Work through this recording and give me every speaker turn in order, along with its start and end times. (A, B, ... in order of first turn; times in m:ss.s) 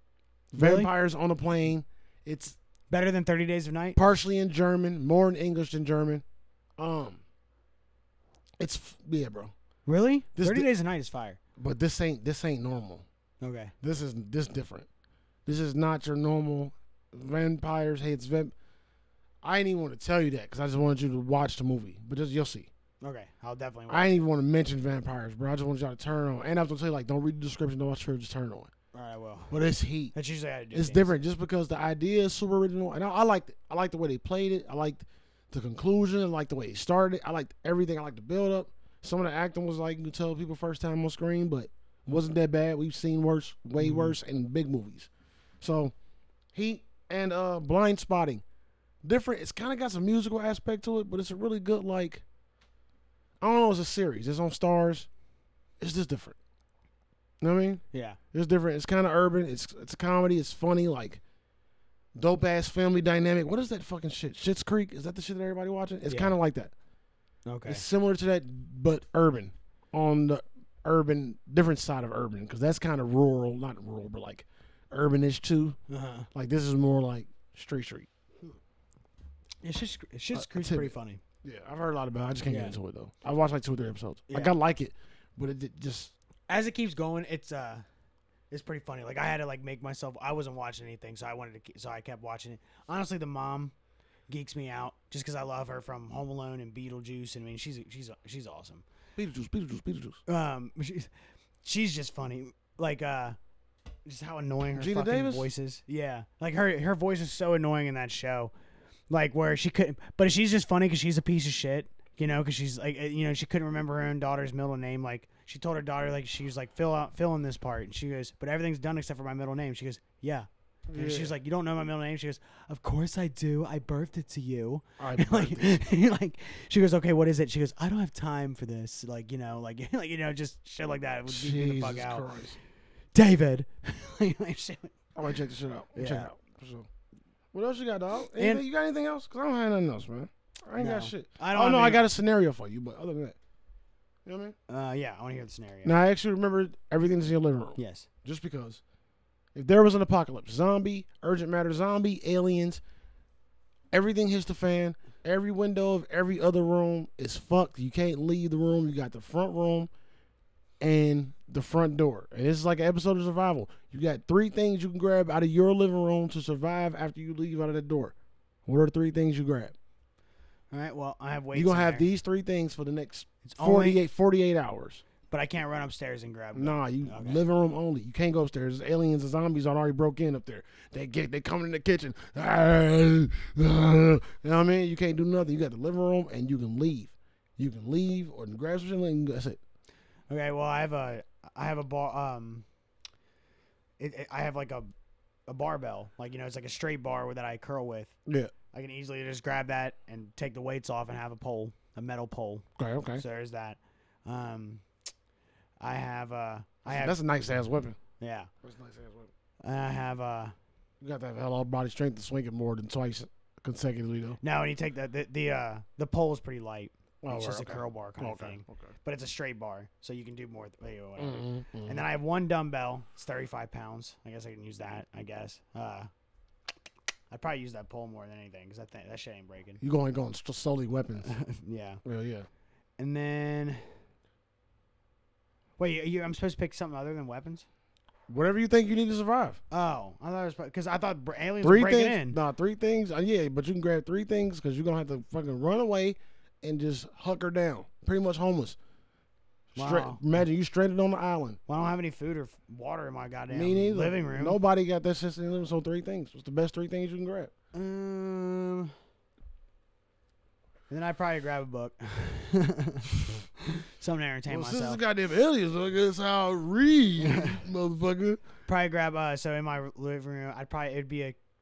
0:00.5-0:02.6 A
0:00.6-0:00.9 B
0:02.9-0:04.0 B
0:04.0-0:06.2 A
0:06.8-0:07.2 A
0:08.6-0:09.5 A
0:09.9-0:11.4 B
0:10.4-0:10.7 A
0:11.6-0:13.1 A
0:13.4-0:13.7 B
0:13.8-0:14.9 A
0:15.5-0:18.5 A
0:19.4-0:22.7 A
0:23.0-0:24.1 B
0:23.9-0:28.7 A
0:28.9-0:29.6 B
0:29.5-0:30.1 A
0:30.1-0:31.1 B
0:30.7-0:45.1 A
0:43.8-0:44.2 B
0:45.6-0:45.9 A
0:46.5-0:48.4 A
0:49.0-0:52.2 A
0:53.4-0:55.1 A
0:55.8-0:56.4 A
0:57.4-1:01.2 A
0:57.9-0:58.2 B
1:02.2-1:06.7 A
1:06.1-1:06.4 B
1:07.5-1:07.8 B
1:07.7-1:15.8 A
1:15.9-1:16.3 B
1:16.3-1:18.1 A
1:19.6-1:21.2 B
1:20.3-1:26.1 A
1:22.5-1:22.8 B
1:24.3-1:24.5 B
1:26.5-1:27.8 B
1:28.5-1:33.7 B
1:34.3-1:38.8 B
1:39.2-1:40.2 A
1:40.3-1:41.1 B
1:41.6-1:43.4 B
1:44.1-1:48.5 B
1:44.8-1:45.5 A
1:49.1-2:12.3 B
2:00.9-2:01.3 A
2:05.0-2:05.9 A
2:11.3-2:12.6 A
2:13.2-2:15.0 B
2:15.2-2:16.9 A
2:16.0-2:16.3 B
2:17.5-2:23.4 A
2:18.4-2:18.6 B
2:20.8-2:22.1 B
2:24.2-2:24.6 A
2:24.7-2:25.9 B
2:25.8-2:28.8 A
2:27.8-2:28.1 B
2:29.6-2:32.8 A
2:33.9-2:39.9 A
2:40.8-2:48.1 A
2:48.7-2:49.8 A
2:50.7-2:52.1 B
2:51.5-2:55.0 A
2:53.4-2:54.0 B
2:55.3-2:57.4 B
2:56.6-3:09.6 A
3:10.3-3:12.6 B
3:14.0-3:14.9 B
3:15.5-3:18.1 B
3:18.3-3:18.5 A
3:18.7-3:22.7 B
3:22.8-3:23.2 A
3:23.2-3:24.8 B
3:25.8-3:27.2 B
3:26.9-3:28.0 A
3:28.2-3:28.5 B
3:28.6-3:29.3 A
3:29.6-3:30.6 B
3:31.0-3:34.4 A
3:34.4-3:46.1 B
3:37.2-3:38.9 A
3:41.2-3:42.0 A
3:47.3-3:49.8 B
3:49.8-3:51.3 A
3:51.2-3:52.0 B
3:52.0-3:52.5 A
3:53.0-3:53.8 B
3:55.8-3:57.6 B
3:58.3-3:59.6 A
3:59.7-4:02.4 B
4:01.6-4:08.8 A
4:09.8-4:11.6 A
4:09.8-4:10.2 B
4:11.7-4:14.6 B
4:13.5-4:17.5 A
4:17.7-4:18.9 B
4:20.9-4:25.0 B
4:24.5-4:28.4 A
4:27.2-4:27.6 B
4:28.7-4:31.4 B